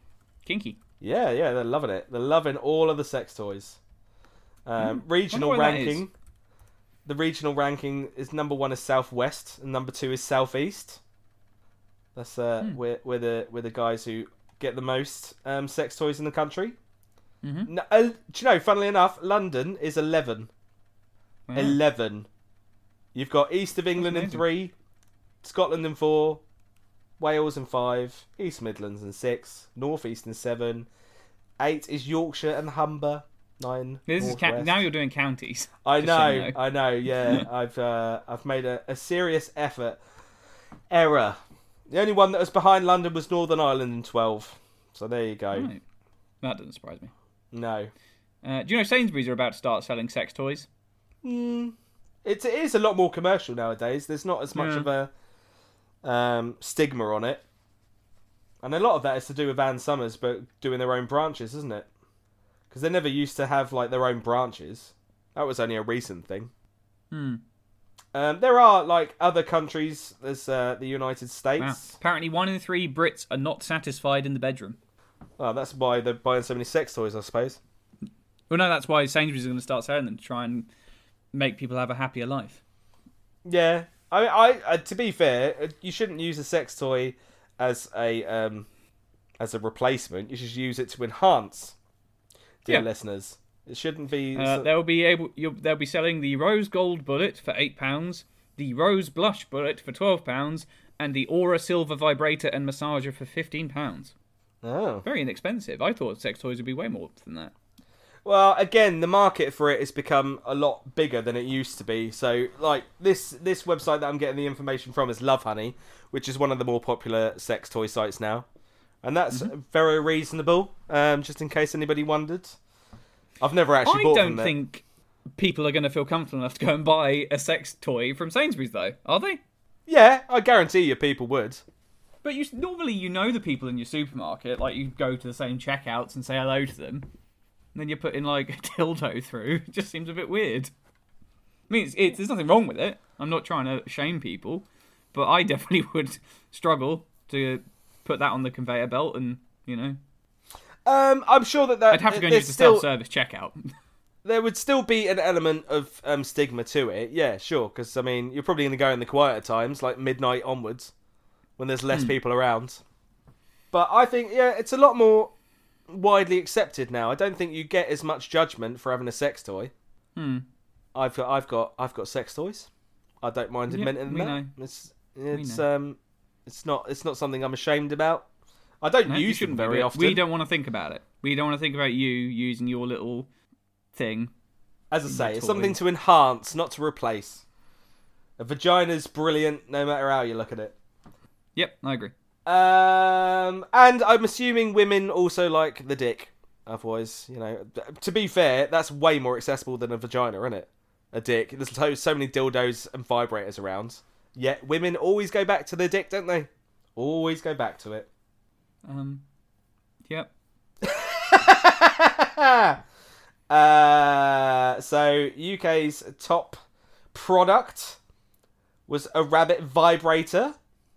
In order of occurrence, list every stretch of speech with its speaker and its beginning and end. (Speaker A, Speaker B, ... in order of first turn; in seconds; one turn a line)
Speaker A: 0.5-0.8
Speaker B: 1.0-3.8
Speaker B: 4.7-6.1
Speaker A: 4.8-6.0
Speaker B: 7.0-11.0
Speaker B: 12.2-16.8
Speaker A: 17.4-17.7
Speaker B: 17.7-20.5
Speaker A: 21.5-21.8
Speaker B: 21.6-22.3
Speaker B: 23.1-24.7
Speaker A: 24.0-24.4
Speaker B: 25.4-26.4
Speaker B: 27.2-30.9
Speaker B: 31.6-34.8
Speaker A: 34.1-36.6
Speaker B: 35.9-40.0
Speaker B: 40.9-41.4
Speaker B: 41.9-45.7
Speaker A: 45.5-45.8
Speaker A: 46.4-47.1
Speaker B: 47.5-47.9
Speaker A: 48.4-50.7
Speaker B: 51.2-55.1
Speaker A: 54.5-54.9
Speaker B: 56.0-57.4
Speaker B: 58.6-61.9
Speaker B: 62.7-66.5
Speaker A: 67.1-67.4
Speaker B: 68.1-72.0
Speaker A: 71.6-74.8
Speaker B: 75.4-77.6
Speaker A: 78.5-80.7
Speaker A: 81.3-82.6
Speaker B: 83.5-88.7
Speaker B: 89.4-91.8
Speaker B: 92.6-94.7
Speaker A: 94.3-104.1
Speaker B: 104.6-105.0
Speaker A: 105.0-107.5
Speaker B: 108.2-118.5
Speaker B: 119.0-122.6
Speaker B: 123.4-124.5
Speaker A: 123.8-124.8
Speaker A: 125.4-129.4
Speaker B: 129.9-131.6
Speaker A: 132.2-137.1
Speaker A: 137.8-140.7
Speaker A: 141.7-150.0
Speaker B: 150.8-152.9
Speaker A: 151.9-153.6
Speaker B: 154.2-160.9
Speaker B: 161.6-162.8
Speaker B: 163.7-165.3
Speaker B: 165.9-169.7
Speaker A: 170.2-170.4
Speaker B: 170.9-172.7
Speaker B: 173.2-178.3
Speaker A: 173.7-174.5
Speaker A: 175.3-175.6
Speaker B: 178.8-180.2
Speaker A: 179.1-183.3
Speaker A: 183.9-184.3
Speaker B: 184.9-187.4
Speaker A: 185.1-185.8
Speaker B: 188.4-190.8
Speaker A: 191.6-192.1
Speaker B: 192.5-208.1
Speaker A: 208.9-209.2
Speaker B: 210.8-212.8
Speaker B: 213.5-216.6
Speaker B: 217.1-218.0
Speaker B: 218.9-220.6